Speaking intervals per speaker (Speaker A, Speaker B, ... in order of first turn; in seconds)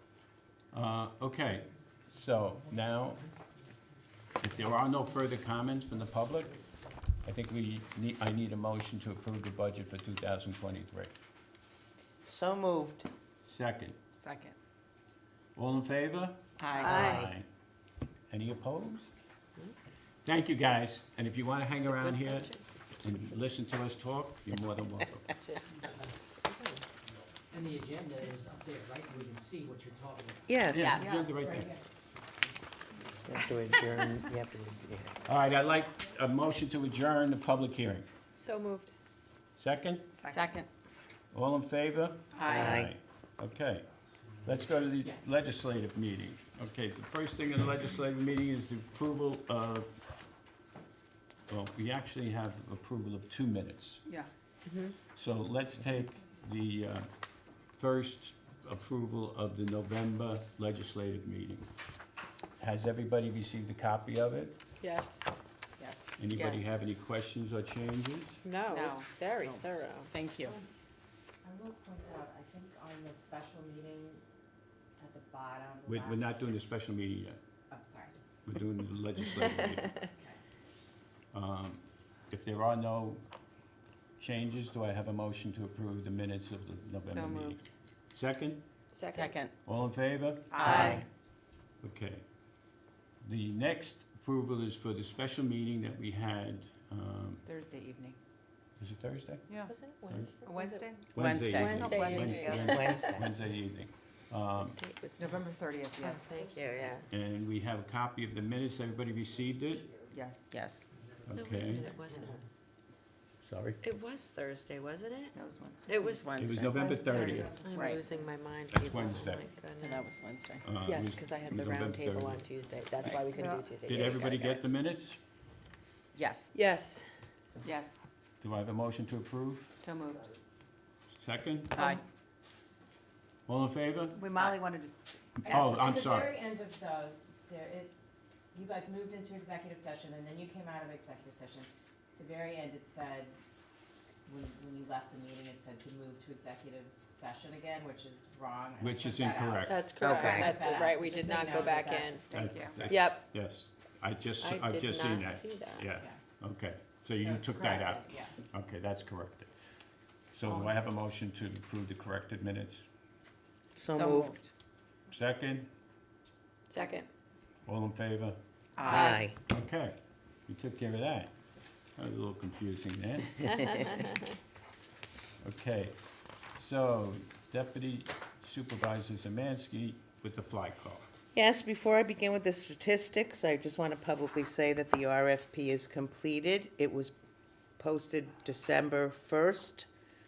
Speaker A: 0.7-3.3, 4.4-6.7, 7.2-11.1, 13.5-14.0, 15.6-17.5, 18.3-19.2, 20.2-25.3, 30.7-31.7, 35.3-38.1, 39.6-40.1, 41.3-43.9, 44.4-49.9, 51.5-54.0, 55.1-57.1, 57.8-61.7, 62.6-64.6, 66.2-68.4, 75.8-77.4, 78.5-80.0, 81.3-83.2, 84.2-88.6, 89.6-91.0, 91.8-92.3, 93.2-97.5, 98.8-99.5, 101.1-104.8, 107.1-109.9, 111.3-111.9, 113.4-113.8, 116.4-117.5, 118.7-119.5, 120.6-122.5, 123.8-125.2, 128.4-129.7, 131.2-131.8, 133.5-134.5, 135.4-136.4, 148.8-150.5, 152.3-159.5, 160.3-162.8, 165.1-165.7, 167.7-168.4, 169.5-171.3, 172.0-173.9, 175.4-176.0, 176.5-181.1
Speaker B: 12.2-13.1, 16.8-17.3, 30.5-31.0, 33.3-35.2, 42.4-42.9, 90.6-91.1, 102.6-103.3, 163.8-164.4, 168.8-169.4, 181.3-187.1, 187.8-189.9
Speaker C: 14.2-14.5, 16.6-17.1, 40.2-40.7, 42.4-42.7, 68.7-70.6, 87.0-87.6, 89.1-89.5, 90.5-91.0, 100.5-102.7, 105.2-106.4, 110.1-110.8, 115.3-118.1, 119.8-120.7, 123.0-123.7, 126.2-126.5, 127.6-128.0, 129.8-130.3, 131.7-132.0, 134.2-135.7, 150.1-150.4, 152.3-152.8, 163.8-164.4, 168.8-169.1
Speaker D: 22.0-22.6, 25.4-25.8, 30.8-31.3, 38.3-38.9, 54.6-55.0, 64.8-65.3, 66.3-66.6, 68.4-70.1, 88.9-89.4, 99.7-101.0, 101.5-103.1, 104.6-105.5, 106.0-107.1, 111.4-112.4, 113.8-115.4, 115.9-120.2, 120.8-124.6, 126.5-127.1, 149.7-152.2, 152.8-153.3, 154.4-155.9, 166.7-167.1, 168.8-169.2
Speaker E: 25.8-26.3, 27.5-30.9
Speaker F: 31.0-31.8, 65.8-66.1, 71.4-74.2, 75.0-76.4, 77.7-78.2, 97.6-98.2, 117.2-117.5, 135.4-137.9, 138.5-143.4, 144.3-152.6, 157.2-158.4